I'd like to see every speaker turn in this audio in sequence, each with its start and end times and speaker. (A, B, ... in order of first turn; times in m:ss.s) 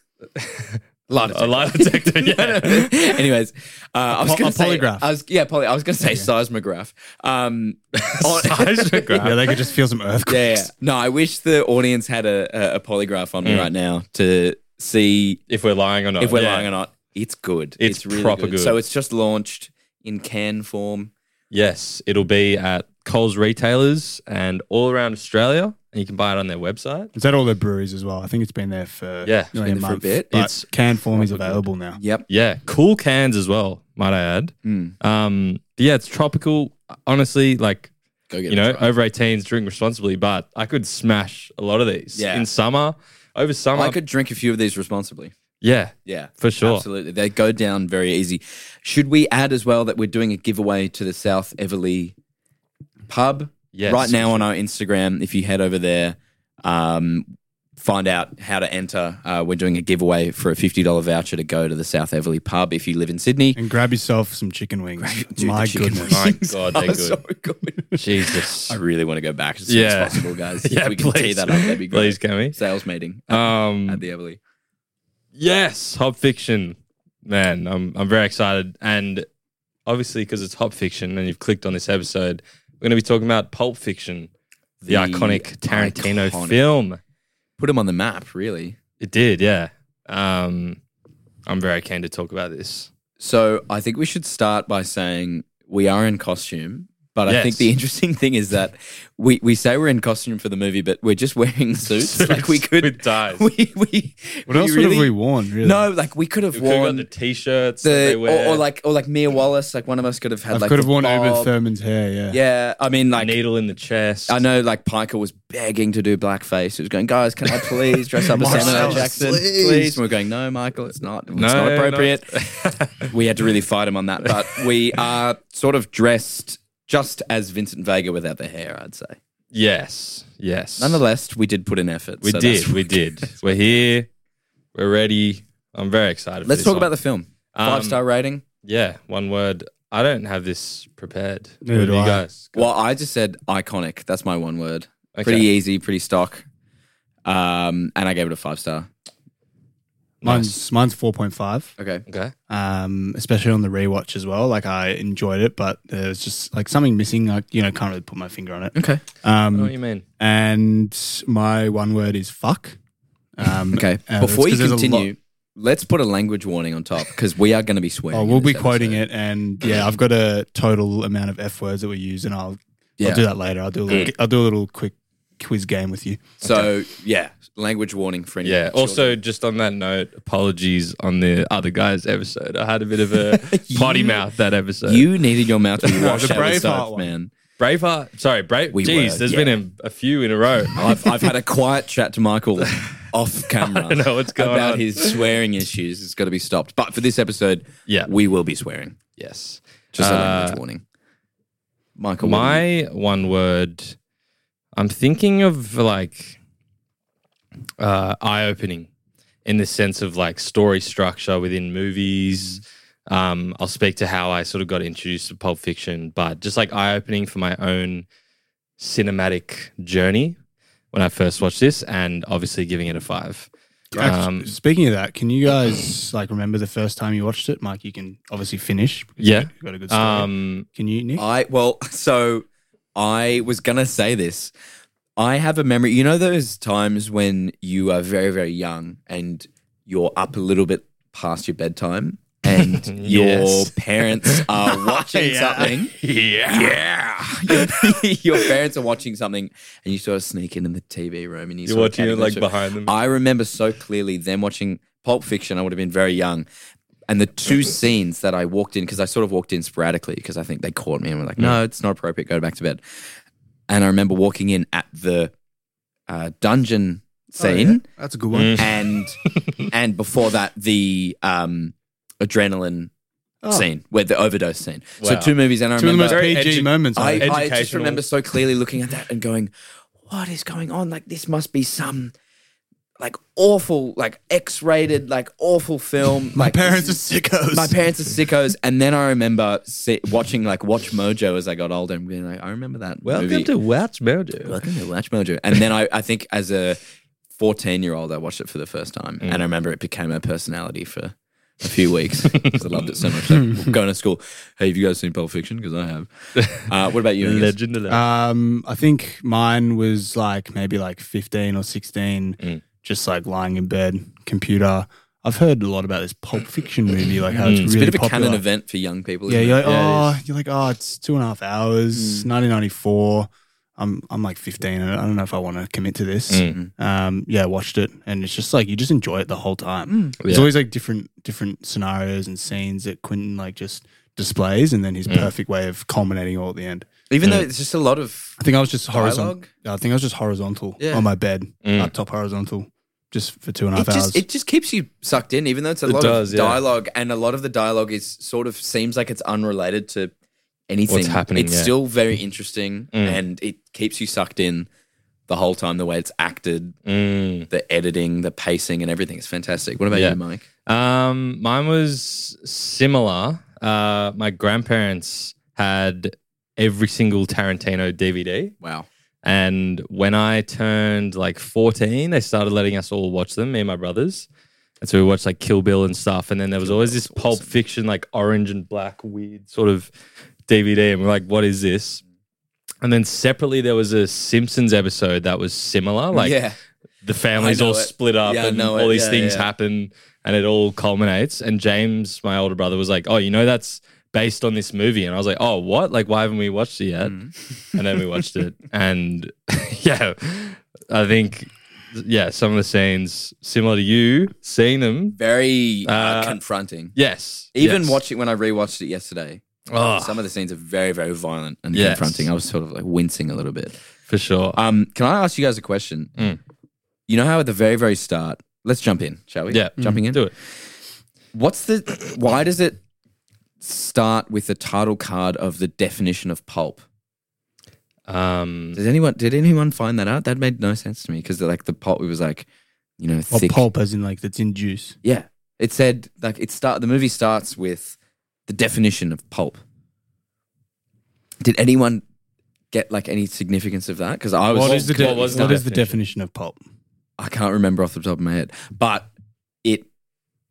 0:00.4-0:00.8 A
0:01.1-0:09.3 B
0:01.3-0:02.9 A
0:04.1-0:05.1 C
0:06.0-0:06.3 C
0:08.0-0:09.5 A
0:09.2-0:10.7 C
0:10.3-0:15.4 B
0:15.5-0:16.7 A
0:16.2-0:21.1 B
0:17.8-0:18.8 A
0:21.5-0:27.1 A
0:27.1-0:32.0 C
0:29.2-0:29.5 A
0:29.6-0:30.4 B
0:30.3-0:31.6 A
0:32.0-0:32.2 B
0:32.3-0:37.9 A
0:34.6-0:34.9 B
0:38.3-0:38.9 B
0:38.5-0:44.0 A
0:42.2-0:42.4 B
0:43.7-0:45.3 B
0:45.6-0:46.8 A
0:46.0-0:52.1 B
0:53.1-0:57.2 B
0:53.7-0:54.4 A
0:57.8-1:03.6 B
1:03.5-1:06.2 C
1:05.0-1:14.4 B
1:06.1-1:07.2 A
1:07.9-1:08.8 A
1:09.7-1:12.6 A
1:13.3-1:14.0 A
1:15.4-1:19.3 A
1:19.8-1:24.3 A
1:24.8-1:26.6 B
1:24.9-1:27.0 A
1:27.6-1:28.8 B
1:29.0-1:30.8 A
1:31.5-1:32.9 A
1:33.2-1:47.1 B
1:37.3-1:37.7 A
1:41.9-1:43.4 A
1:44.5-1:45.8 C
1:46.5-1:48.6 A
1:47.8-1:51.5 B
1:50.5-1:52.4 C
1:52.3-1:53.4 B
1:53.2-1:54.4 A
1:54.3-2:02.4 B
1:57.5-2:00.0 A
1:58.3-1:59.4 C
2:01.3-2:03.1 A
2:03.0-2:09.2 B
2:04.2-2:04.7 A
2:09.5-2:11.0 A
2:10.8-2:13.7 B
2:12.2-2:14.1 A
2:14.7-2:16.9 A
2:16.4-2:18.4 B
2:17.5-2:18.0 A
2:18.6-2:22.7 A
2:21.6-2:22.2 C
2:22.5-2:26.4 B
2:25.1-2:25.5 A
2:27.2-2:28.9 B
2:30.2-2:31.7 C
2:30.2-2:30.5 A
2:31.8-2:32.0 B
2:32.1-2:32.3 A
2:32.5-2:42.8 C
2:38.7-2:39.0 B
2:39.5-2:40.0 A
2:43.4-2:45.1 C
2:43.7-2:49.0 B
2:48.1-2:56.4 C
2:56.4-2:59.2 B
2:58.4-3:05.1 A
3:03.2-3:04.2 B
3:04.8-3:07.3 B
3:05.9-3:07.1 C
3:05.9-3:06.4 A
3:07.6-3:10.8 A
3:08.7-3:09.5 B
3:10.7-3:19.0 B
3:13.5-3:15.1 A
3:19.2-3:20.6 A
3:19.9-3:20.8 B
3:22.0-3:22.6 B
3:22.2-3:24.0 A
3:24.7-3:26.4 A
3:27.8-3:28.9 A
3:29.4-3:38.1 A
3:32.3-3:32.6 B
3:38.8-3:40.4 A
3:40.9-3:43.5 A
3:43.9-3:51.2 C
3:44.0-3:44.5 A
3:49.2-3:50.7 A
3:51.2-3:54.5 B
3:55.2-4:06.0 B
4:02.5-4:06.8 A
4:06.5-4:16.4 B
4:07.5-4:08.0 A
4:11.6-4:12.9 A
4:17.1-4:22.8 B
4:23.7-4:25.3 B
4:26.1-4:27.8 B
4:27.4-4:28.6 C
4:28.3-4:28.7 A
4:28.6-4:29.2 B
4:29.7-4:32.9 B
4:33.5-4:39.5 B
4:35.0-4:35.3 A
4:35.8-4:38.0 C
4:36.1-4:36.7 A
4:40.0-4:42.1 B
4:43.0-4:53.5 B
4:46.3-4:47.8 C
4:53.0-4:54.6 A
4:54.4-4:56.8 B
4:57.4-5:07.5 B
5:06.4-5:06.6 A
5:07.2-5:08.0 A
5:07.9-5:18.4 C
5:17.4-5:17.7 A
5:17.4-5:20.2 B
5:19.3-5:36.9 C
5:21.9-5:22.3 B
5:26.3-5:26.5 A
5:29.9-5:30.2 B
5:30.2-5:30.5 A
5:37.1-5:38.4 B
5:38.4-5:44.2 C
5:38.9-5:39.5 B
5:40.8-5:41.1 B
5:41.6-5:41.9 A
5:43.7-5:50.1 B
5:45.8-5:46.6 A
5:50.7-5:54.7 B
5:50.9-5:51.7 A
5:52.9-5:53.2 A
5:55.3-5:56.8 B
5:56.8-5:57.5 A
5:57.5-6:00.4 B
5:59.9-6:08.5 A
6:08.6-6:08.9 B
6:09.2-6:14.3 A
6:14.8-6:19.9 A
6:16.6-6:17.5 B
6:20.5-6:22.0 A
6:22.8-6:26.4 A
6:26.1-6:26.5 B
6:27.0-6:37.2 A
6:27.4-6:29.5 B
6:37.0-6:37.3 B
6:37.7-6:45.2 A
6:45.2-6:47.0 B
6:45.8-6:46.4 A
6:46.9-6:48.0 A
6:47.5-6:49.4 B
6:49.7-6:50.2 A
6:50.0-6:53.7 B
6:51.7-6:52.3 A
6:54.1-6:54.6 A
6:54.5-6:56.1 B
6:57.1-7:00.3 B
6:59.5-7:00.3 A
7:01.3-7:02.8 B
7:03.6-7:06.8 B
7:08.1-7:08.8 A
7:08.7-7:12.4 B
7:13.0-7:13.6 B
7:13.3-7:15.0 C
7:15.0-7:18.0 B
7:18.5-7:19.6 B
7:21.4-7:22.0 B
7:22.7-7:25.6 B
7:24.5-7:26.6 C
7:24.5-7:26.0 A
7:27.2-7:29.1 B